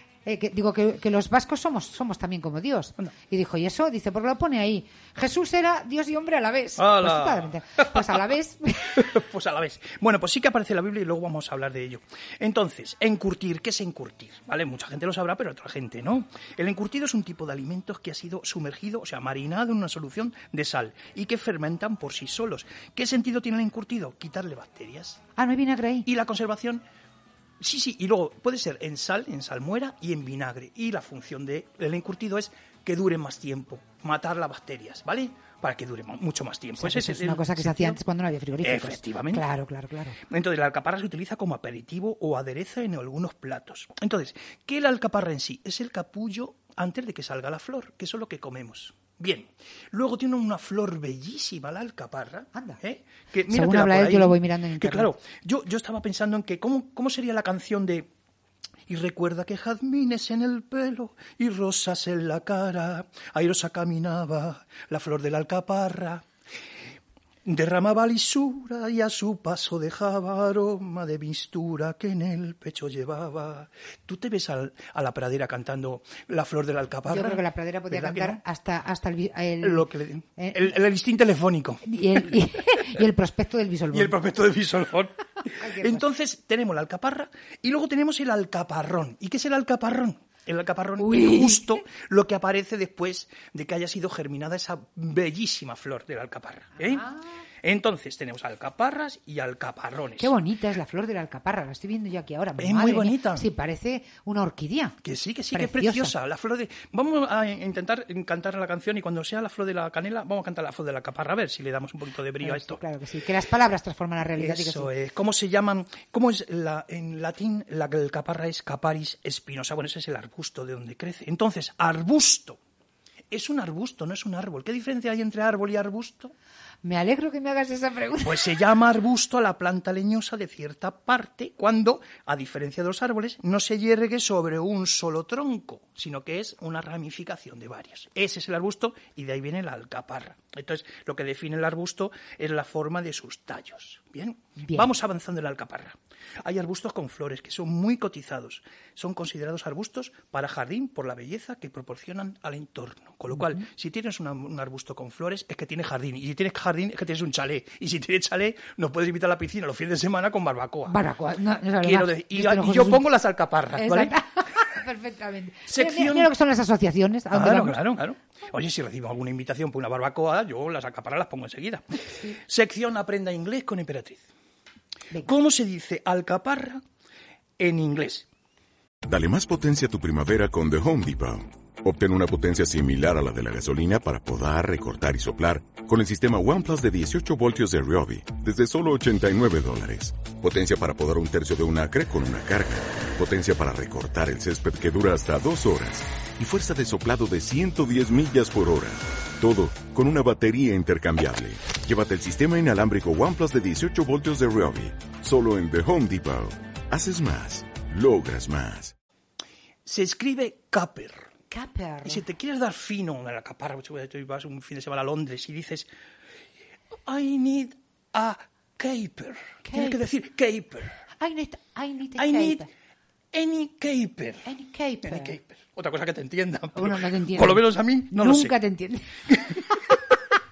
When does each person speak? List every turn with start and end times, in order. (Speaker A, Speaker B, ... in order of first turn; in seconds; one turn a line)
Speaker A: 0.2-9.1
Speaker B: 6.8-8.2
Speaker B: 8.9-25.2
Speaker A: 25.4-26.1
Speaker B: 26.0-26.8
Speaker B: 27.6-38.0
Speaker A: 36.8-40.2
Speaker B: 38.6-39.5
Speaker B: 40.3-58.1
Speaker A: 52.5-52.8
Speaker A: 53.5-55.1
Speaker B: 58.9-66.2
Speaker B: 67.5-78.4
Speaker A: 77.1-79.8
Speaker B: 79.6-82.8
Speaker A: 80.4-80.7
Speaker A: 81.8-84.2
Speaker B: 83.9-97.1
Speaker A: 85.4-86.0
Speaker A: 91.0-91.8
Speaker A: 96.8-97.2
Speaker B: 97.6-100.3
Speaker A: 100.2-105.0
Speaker B: 102.6-103.4
Speaker B: 105.0-112.8
Speaker A: 105.5-106.1
Speaker A: 112.4-114.9
Speaker B: 114.3-122.6
Speaker B: 123.3-126.3
Speaker A: 126.8-128.6
Speaker B: 128.2-161.0
Speaker A: 144.6-144.9
Speaker A: 153.3-153.7
Speaker A: 160.9-163.0
Speaker B: 161.8-164.1
Speaker A: 163.8-167.8
Speaker B: 165.7-166.3
Speaker B: 167.3-174.2
Speaker B: 175.2-176.8
Speaker B: 177.6-178.3
Speaker C: 179.0-208.9
Speaker B: 209.8-211.3
Speaker A: 211.5-212.2
Speaker B: 212.0-215.9
Speaker B: 217.1-220.9
Speaker A: 219.6-220.1
Speaker A: 221.2-222.7
Speaker B: 222.2-222.7
Speaker B: 223.3-224.5
Speaker A: 224.4-225.3
Speaker B: 225.0-228.5
Speaker A: 226.7-229.8
Speaker B: 229.3-229.9